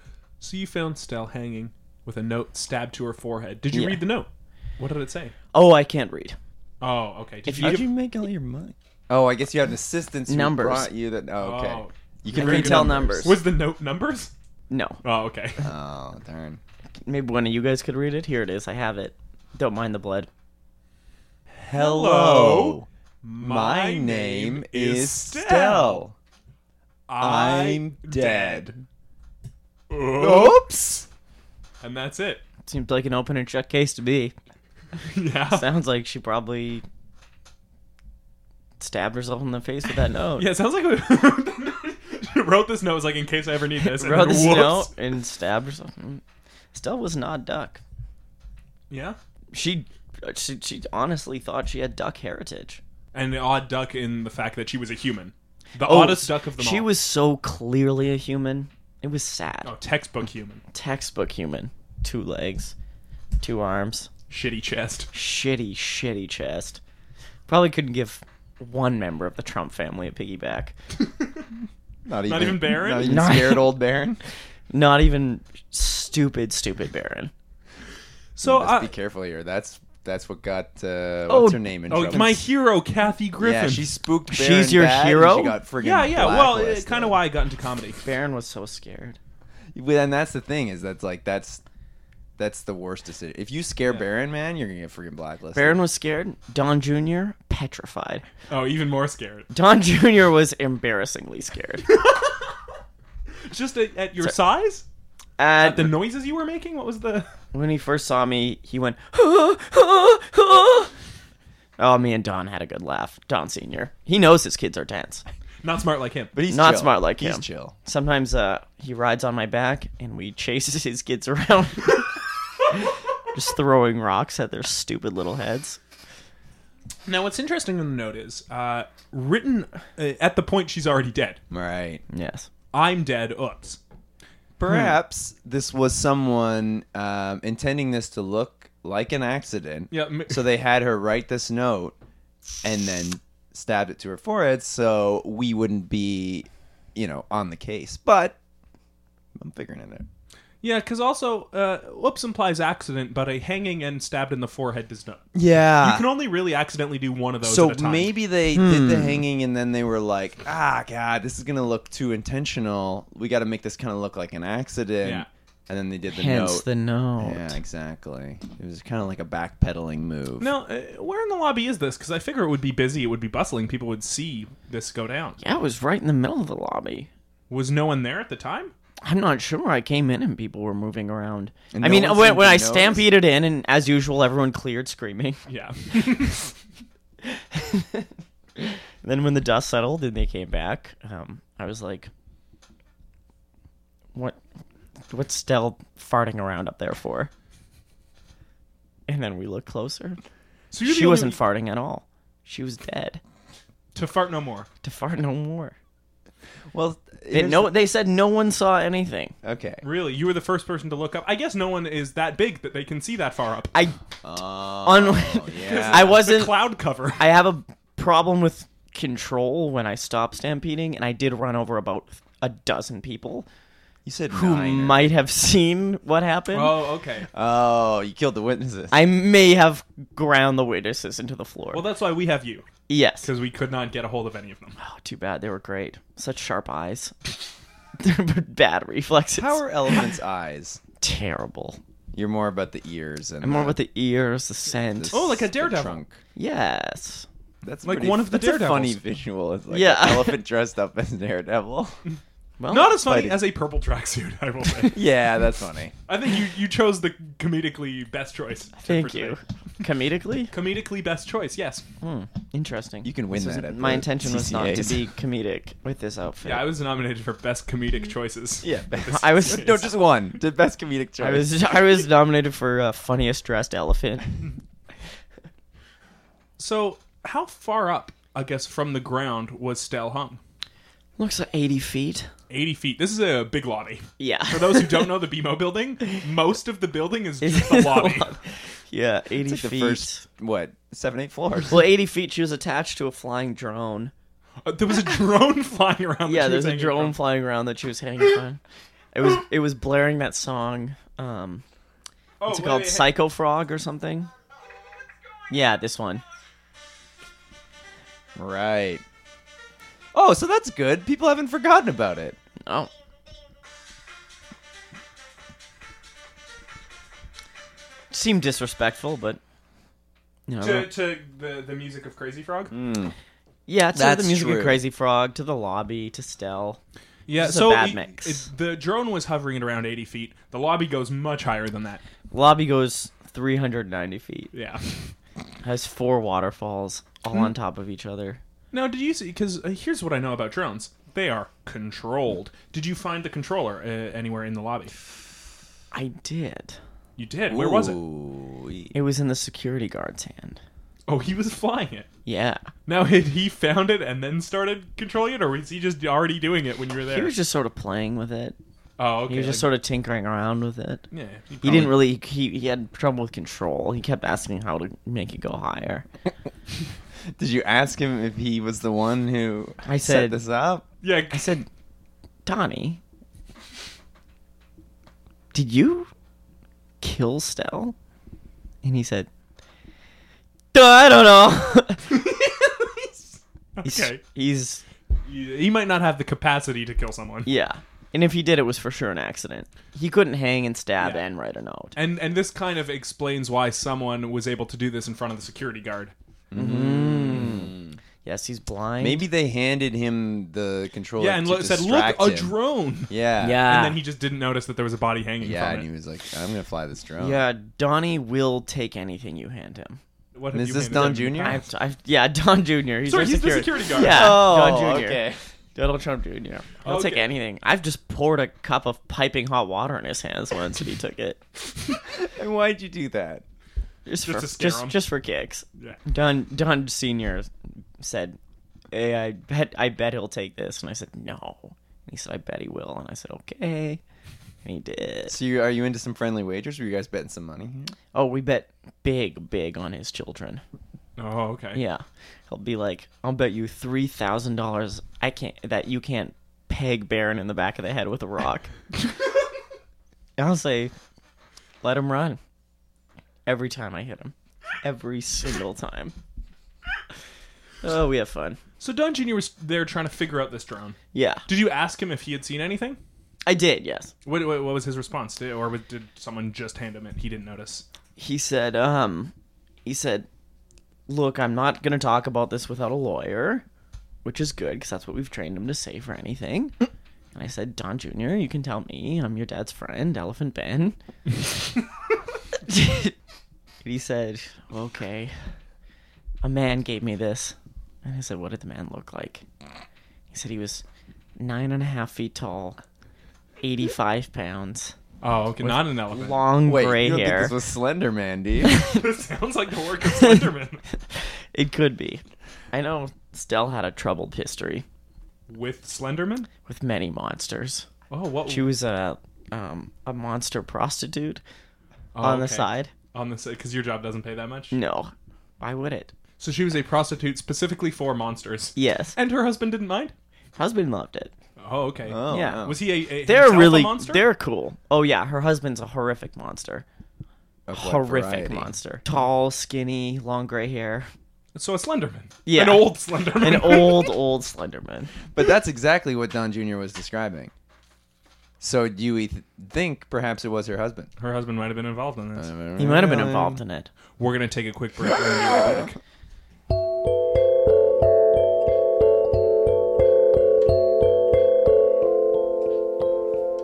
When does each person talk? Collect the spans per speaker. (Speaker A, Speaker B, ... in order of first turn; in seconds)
Speaker A: 0.4-5.3, 6.8-7.9, 11.4-14.3, 15.0-15.6, 21.7-26.0, 27.1-28.8, 29.9-30.7, 31.8-32.4, 35.1-35.7, 40.4-44.9, 48.9-49.2, 53.1-56.9, 59.6-60.6, 64.3-65.1, 72.2-73.2, 78.3-78.9, 81.9-83.9, 85.8-88.0, 98.5-99.5, 103.4-104.8, 105.6-107.3, 115.6-116.3, 127.0-131.4, 132.7-133.8, 139.9-140.4, 150.6-155.2, 155.8-158.1, 165.0-165.3, 170.4-175.4, 177.5-178.7, 185.5-186.5, 200.7-201.4, 203.9-204.7, 209.8-213.7, 215.6-217.2, 226.5-227.3, 231.7-232.7, 233.2-234.8, 245.1-246.0, 247.8-249.0, 252.1-255.0, 256.1-259.4, 260.5-261.8, 266.4-269.9, 276.6-280.4, 282.5-288.4, 294.6-297.2, 302.4-303.1, 320.6-322.7, 327.3-332.0, 334.5-335.1, 338.7-345.0, 347.2-348.0, 351.1-352.1, 352.9-357.3, 359.0-359.7, 361.1-362.0, 371.0-371.5, 383.8-384.2, 385.2-387.5, 391.9-396.1, 401.2-405.9, 410.3-411.6, 413.0-414.5, 416.8-417.3, 424.2-425.0, 441.2-441.8, 458.8-463.0, 464.2-467.8, 495.2-496.4, 498.8-500.8, 505.5-506.5, 508.1-508.7, 512.1-514.7, 516.4-520.1, 521.6-524.2, 531.5-534.1, 541.2-542.5, 544.2-546.0
Speaker B: 3.7-4.0, 5.5-6.4, 7.5-7.8, 10.3-10.9, 12.3-13.4, 14.7-15.0, 17.0-20.3, 32.6-34.3, 35.5-36.8, 38.8-40.5, 43.8-46.2, 46.7-47.8, 49.5-52.8, 55.8-59.7, 60.7-62.7, 63.4-64.1, 65.1-66.8, 67.5-70.7, 73.0-73.8, 74.7-77.3, 81.3-82.3, 84.3-85.6, 88.0-89.2, 95.5-98.2, 99.5-101.9, 105.4-106.0, 107.5-110.9, 111.8-115.2, 116.5-122.2, 122.7-125.8, 132.1-132.5, 134.7-134.9, 158.5-159.2, 166.1-167.6, 175.4-177.1, 179.0-185.4, 187.2-192.1, 195.1-197.3, 199.1-200.2, 200.8-203.2, 204.8-205.7, 207.3-209.3, 214.8-216.6, 217.2-223.5, 224.3-226.8, 228.9-231.8, 232.9-233.3, 234.8-237.4, 238.0-240.0, 241.0-241.8, 243.4-245.3, 246.3-247.3, 249.7-250.4, 252.6-253.2, 258.8-260.5, 262.0-266.7, 269.1-269.8, 271.2-274.4, 281.2-282.3, 284.2-285.1, 287.4-290.2, 291.7-294.1, 296.2-298.6, 299.1-301.6, 302.5-304.3, 305.5-306.2, 312.6-312.9, 318.1-319.4, 320.5-320.9, 323.7-326.8, 327.4-328.5, 332.3-334.5, 335.6-338.4, 345.9-346.8, 348.9-350.6, 352.2-352.7, 357.1-358.6, 359.3-361.0, 361.6-366.1, 369.8-370.4, 371.3-371.6, 372.4-373.0, 375.5-376.1, 377.0-377.9, 378.8-379.3, 380.7-382.1, 383.8-384.8, 387.4-391.9, 396.5-399.3, 403.4-404.0, 407.2-410.0, 411.3-415.2, 415.7-421.4, 424.1-428.4, 428.9-434.0, 434.6-435.4, 438.1-440.6, 441.7-448.7, 450.4-450.9, 451.8-452.4, 453.4-456.1, 457.8-458.6, 461.1-461.4, 463.4-464.1, 468.2-469.3, 469.8-470.3, 471.1-473.6, 474.2-476.7, 477.3-481.0, 482.6-483.1, 483.8-485.5, 486.4-489.4, 490.3-490.8, 491.4-492.8, 493.6-494.9, 495.6-497.6, 498.6-499.0, 500.0-500.5, 501.1-504.8, 506.6-507.9, 508.5-511.4, 512.2-512.9, 514.7-516.1, 518.8-519.2, 520.5-521.3, 522.3-522.7, 523.2-526.8, 527.7-531.1, 532.4-535.1, 542.8-543.9
Speaker C: 7.5-13.3, 15.6-16.6, 21.6-22.9, 23.4-26.1, 27.2-28.7, 30.1-31.1, 72.0-74.2, 78.4-82.4, 83.4-87.2, 89.7-91.6, 92.4-95.8, 116.3-117.7, 131.5-132.0, 134.6-141.9, 142.6-148.4, 149.3-150.1, 155.3-156.1, 157.4-166.7, 167.2-170.5, 181.7-183.1, 206.7-207.7, 209.4-209.8, 214.2-216.2, 224.0-225.1, 227.3-229.0, 239.3-240.8, 242.1-243.8, 244.8-246.2, 247.6-252.0, 253.0-253.3, 254.8-255.9, 263.0-265.1, 268.6-271.6, 289.4-291.9, 308.4-309.0, 310.1-312.4, 322.7-323.1, 323.9-324.8, 347.5-348.9, 367.3-370.9, 396.5-398.0, 399.0-402.5, 403.1-403.7, 405.4-407.4, 410.5-411.6, 413.9-415.4, 422.0-423.4, 435.3-437.9, 496.6-498.7, 522.0-522.8, 527.7-528.7, 535.3-537.5, 538.6-541.1, 542.3-543.6